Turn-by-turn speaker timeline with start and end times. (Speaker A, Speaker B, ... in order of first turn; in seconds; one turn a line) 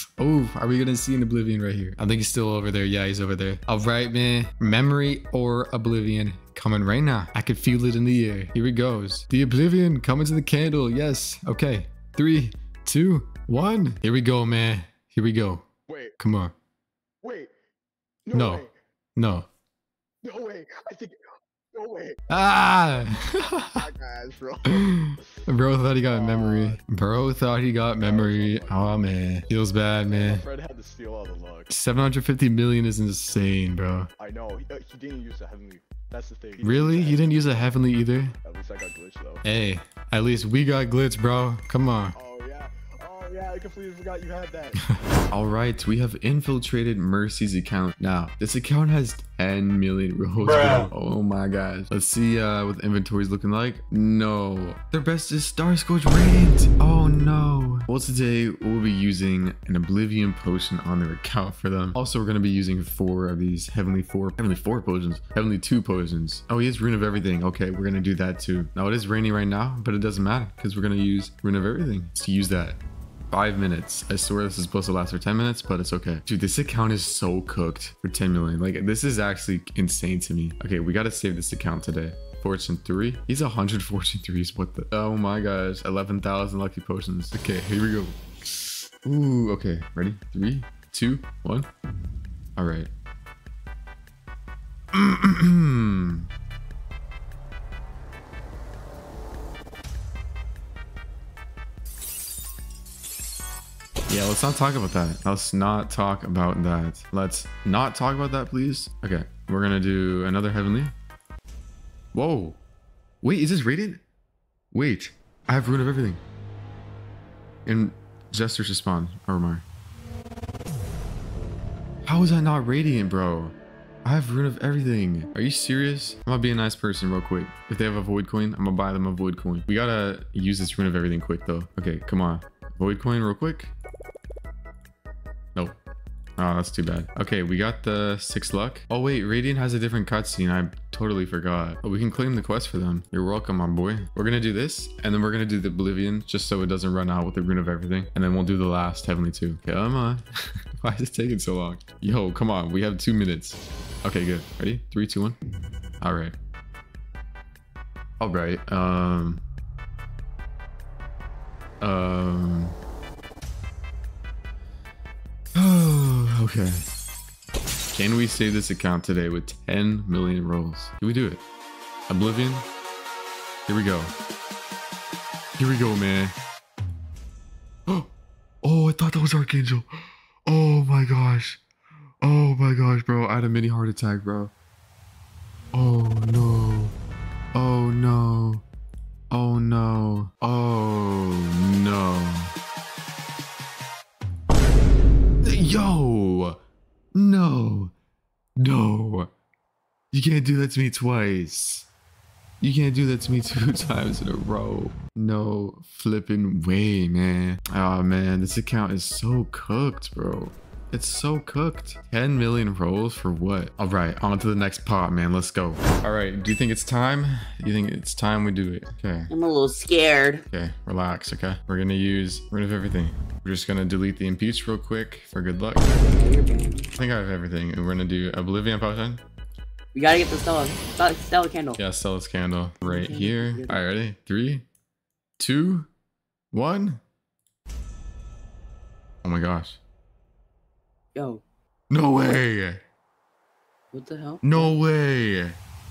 Speaker A: 0.2-15.6
Speaker B: 15.9-16.1
Speaker A: 16.2-16.5
Speaker B: 17.2-17.5
Speaker B: 18.2-18.7
Speaker A: 18.3-18.6
Speaker A: 19.1-19.5
Speaker B: 20.2-21.1
Speaker B: 21.7-22.2
Speaker A: 22.3-23.9
Speaker B: 23.7-25.4
Speaker A: 24.6-30.4
Speaker B: 26.1-26.8
Speaker B: 28.0-29.1
Speaker B: 30.1-31.7
Speaker A: 31.7-34.1
Speaker B: 34.2-37.7
Speaker A: 36.6-38.3
Speaker B: 38.4-39.4
Speaker A: 39.4-42.1
Speaker B: 42.1-44.8
Speaker A: 44.8-72.8
Speaker A: 73.3-91.7
Speaker A: 92.6-92.9
Speaker A: 94.9-96.3
Speaker A: 104.1-110.9
Speaker A: 112.1-112.6
Speaker A: 113.2-114.0
Speaker A: 114.7-116.2
Speaker A: 117.6-119.6
Speaker A: 122.0-133.7
Speaker A: 135.5-135.8
Speaker A: 136.4-155.4
Speaker A: 156.0-156.3
Speaker A: 158.2-159.4
Speaker A: 161.8-162.8
Speaker A: 165.5-166.8
Speaker A: 167.9-171.4
Speaker A: 172.1-172.7
Speaker A: 173.7-174.1
Speaker A: 175.6-176.3
Speaker A: 178.6-181.6
Speaker A: 182.2-184.5
Speaker A: 185.7-186.9
Speaker A: 187.5-188.6
Speaker A: 189.3-192.5
Speaker A: 195.4-196.6
Speaker A: 197.1-197.9
Speaker A: 198.6-199.3
Speaker A: 200.1-201.9
Speaker A: 202.6-219.3
Speaker C: 219.3-220.4
Speaker A: 220.5-225.9
Speaker C: 226.0-226.9
Speaker A: 227.0-229.2
Speaker C: 229.9-231.8
Speaker A: 231.8-234.6
Speaker C: 232.8-233.8
Speaker A: 235.4-235.9
Speaker A: 236.5-237.0
Speaker A: 239.2-239.8
Speaker C: 241.1-241.4
Speaker A: 241.9-242.8
Speaker C: 243.9-244.7
Speaker A: 244.4-245.6